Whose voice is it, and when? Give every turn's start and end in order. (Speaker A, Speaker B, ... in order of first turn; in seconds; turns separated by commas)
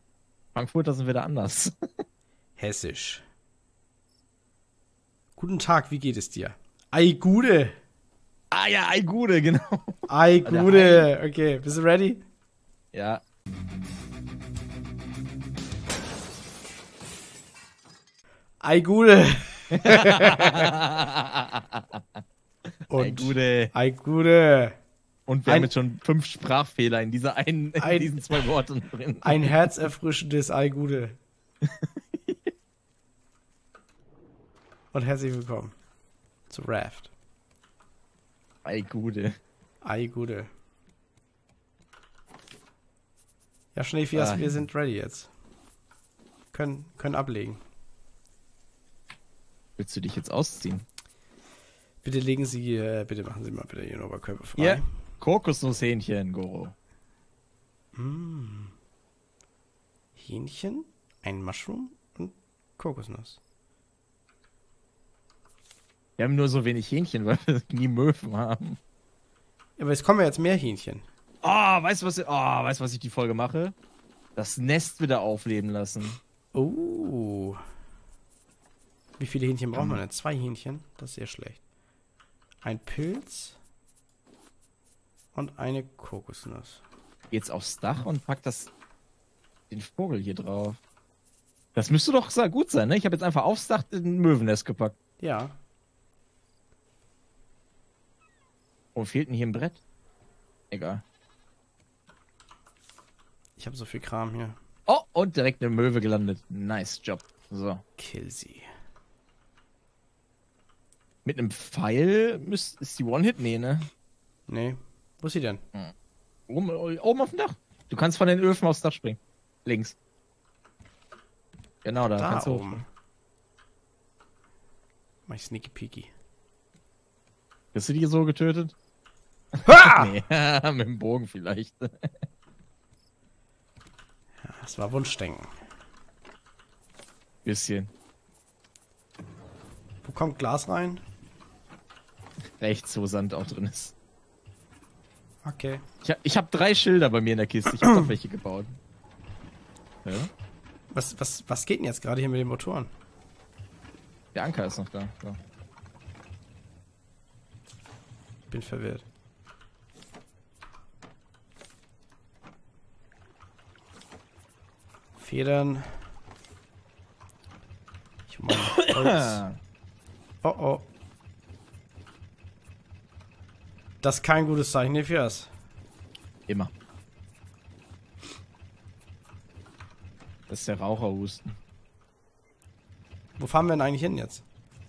Speaker A: 0.5-1.7, Speaker B: 2.6-3.2, Speaker B: 5.4-7.8, Speaker A: 8.5-11.1, Speaker B: 10.1-12.2, Speaker A: 12.9-13.2, Speaker B: 18.6-20.7, Speaker A: 19.8-22.2, Speaker B: 22.9-24.8, Speaker A: 22.9-23.7, Speaker A: 25.3-29.5, Speaker B: 25.4-25.7, Speaker B: 27.8-28.5, Speaker B: 29.2-31.2, Speaker A: 31.6-32.5, Speaker B: 34.9-35.7, Speaker B: 36.5-37.1, Speaker A: 38.6-39.4, Speaker B: 39.8-40.5, Speaker B: 43.7-45.3, Speaker A: 44.1-44.6, Speaker B: 46.5-47.6, Speaker A: 49.8-50.8, Speaker B: 52.0-54.8, Speaker A: 54.6-56.7, Speaker B: 57.9-58.7, Speaker B: 60.1-63.4, Speaker A: 66.2-68.8, Speaker B: 69.8-71.0, Speaker A: 71.4-73.7, Speaker A: 74.3-76.2, Speaker B: 76.5-77.6, Speaker B: 79.2-81.6, Speaker A: 79.7-80.0, Speaker B: 82.6-83.6, Speaker B: 85.3-86.8, Speaker A: 87.3-88.7, Speaker A: 89.7-90.8, Speaker A: 91.7-94.9, Speaker B: 95.2-95.5, Speaker A: 98.9-99.8, Speaker A: 100.7-101.0, Speaker B: 103.6-104.6, Speaker A: 104.9-107.8, Speaker B: 108.0-108.7, Speaker A: 111.2-113.9, Speaker B: 114.5-115.6, Speaker A: 116.5-120.0, Speaker A: 121.8-122.8, Speaker B: 122.0-122.8, Speaker B: 125.3-126.1, Speaker A: 127.7-128.7, Speaker B: 129.6-130.1, Speaker A: 129.6-132.1, Speaker B: 134.4-135.5, Speaker A: 137.4-137.9, Speaker B: 140.0-141.0, Speaker A: 142.6-143.9, Speaker B: 145.4-145.8, Speaker A: 146.0-148.8, Speaker A: 150.0-150.3, Speaker B: 150.9-152.9, Speaker A: 154.3-155.4, Speaker B: 158.5-159.0, Speaker B: 165.2-166.1, Speaker B: 168.3-169.4, Speaker A: 168.7-169.6, Speaker B: 170.4-170.9, Speaker B: 174.0-175.5, Speaker A: 176.5-176.7, Speaker A: 180.5-181.6, Speaker B: 183.4-184.4